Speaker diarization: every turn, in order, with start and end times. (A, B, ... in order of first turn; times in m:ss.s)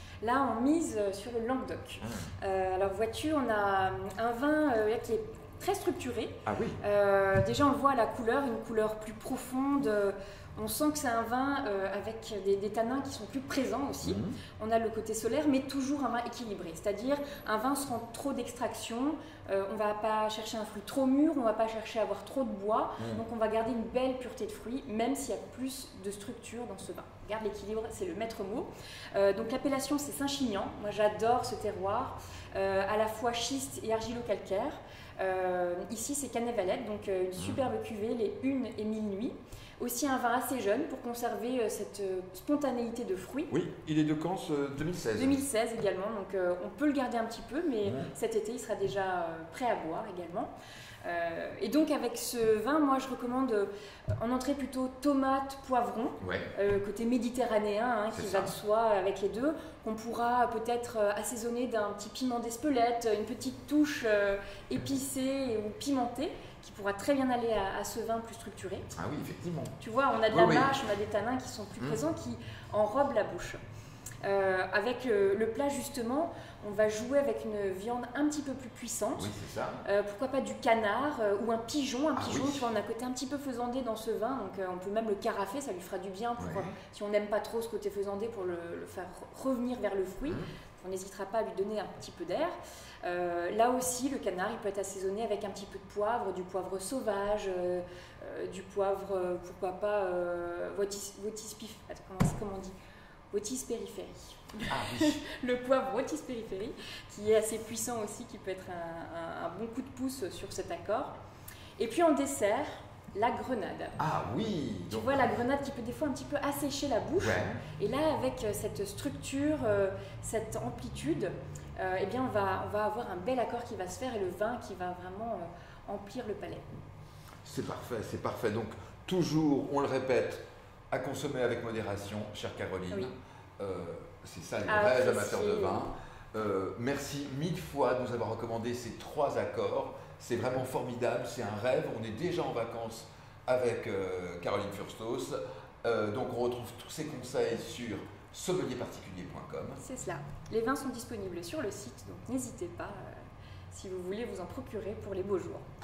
0:00.2-0:43.5 A
0:02.0-0:02.3 B
0:06.4-0:06.8 B
0:14.0-0:14.4 B
0:23.0-0:23.2 B
0:43.5-0:45.4 B
0:45.1-0:50.5 A
0:47.8-0:48.1 B
0:51.0-1:08.9 A
0:56.2-0:56.5 B
0:58.1-0:58.5 B
1:08.9-1:09.8 B
1:09.8-1:13.6 A
1:10.3-1:10.7 B
1:14.2-1:19.3 A
1:19.2-1:19.8 B
1:19.8-1:42.7 A
1:22.2-1:22.7 B
1:26.4-1:26.7 B
1:43.3-1:51.1 A
1:44.7-1:45.2 B
1:51.8-1:54.0 A
1:54.0-1:55.3 B
1:54.9-2:06.6 A
1:57.2-1:57.6 B
2:07.4-2:29.8 B
2:14.6-2:15.9 A
2:29.8-2:35.6 A